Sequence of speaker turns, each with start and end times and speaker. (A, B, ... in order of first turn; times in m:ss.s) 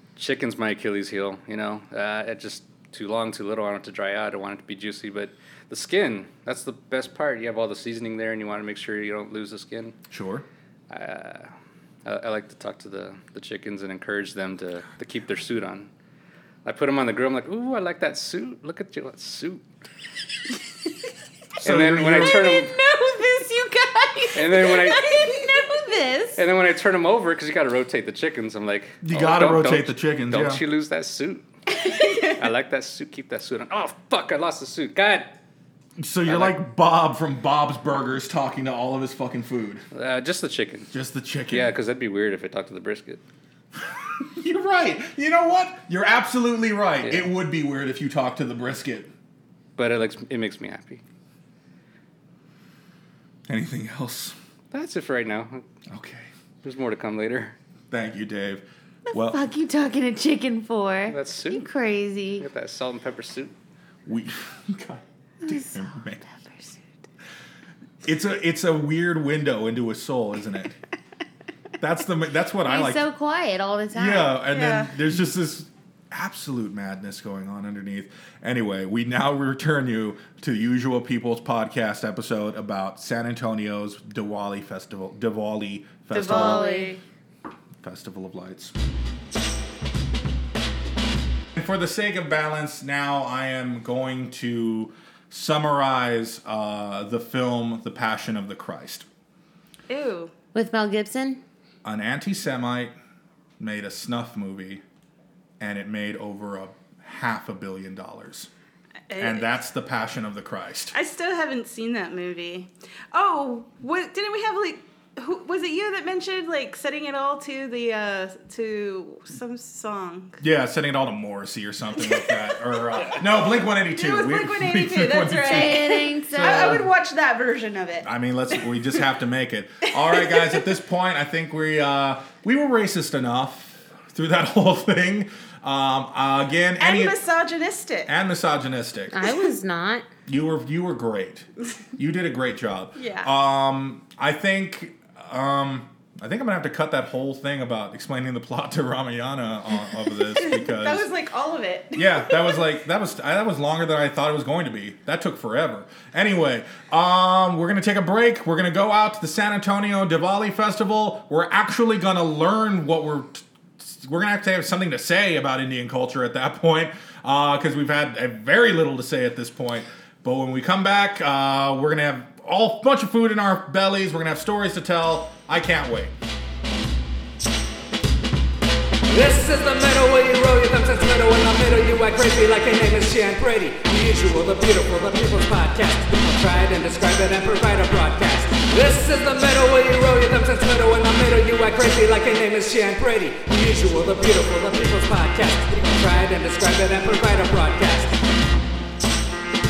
0:00.2-0:10.0 A
0:10.1-0:10.4 B
0:10.9-0:11.5 A
0:12.0-0:15.9 A
0:16.6-0:19.7 A
0:21.6-0:22.4 B
0:21.6-0:22.7 A
0:22.2-0:26.4 C
0:24.4-0:25.3 A
0:25.1-0:25.8 D
0:26.4-0:31.4 A
0:29.0-0:30.6 B
0:31.7-0:32.4 C
0:32.2-0:35.3 A
0:36.0-0:39.8 B
0:36.3-0:36.6 A
0:39.9-0:40.9 A
0:40.9-0:41.7 B
0:41.5-0:43.2 A
0:43.8-0:49.1 B
0:47.0-0:47.3 A
0:49.8-0:51.0 A
0:53.5-0:54.4 B
0:54.7-0:55.6 A
0:55.9-0:56.3 B
0:56.6-0:57.6 A
0:57.9-0:59.4 B
0:59.1-1:02.5 D
1:01.1-1:01.7 A
1:02.4-1:03.6 A
1:04.1-1:06.2 B
1:05.4-1:06.9 D
1:08.0-1:10.8 B
1:11.8-1:13.0 B
1:12.6-1:14.4 D
1:13.9-1:26.7 B
1:14.5-1:15.0 C
1:26.1-1:27.0 C
1:26.2-1:26.9 D
1:27.8-1:28.7 B
1:31.6-1:39.1 B
1:39.9-1:40.3 C
1:40.5-1:41.4 D
1:41.8-1:42.9 B
1:43.6-1:44.8 B
1:45.6-1:48.5 B
1:49.1-1:49.6 C
1:49.2-1:50.9 B
1:50.9-2:00.4 C
2:00.4-2:06.9 B
2:02.0-2:09.0 C
2:05.5-2:06.8 D
2:08.0-2:17.2 B
2:10.0-2:10.7 C
2:16.8-2:18.1 C
2:18.1-2:19.2 B
2:19.1-2:20.0 D
2:20.3-2:31.1 B
2:23.0-2:23.3 C
2:30.3-2:32.6 C
2:32.0-2:56.2 B
2:59.1-3:18.2 E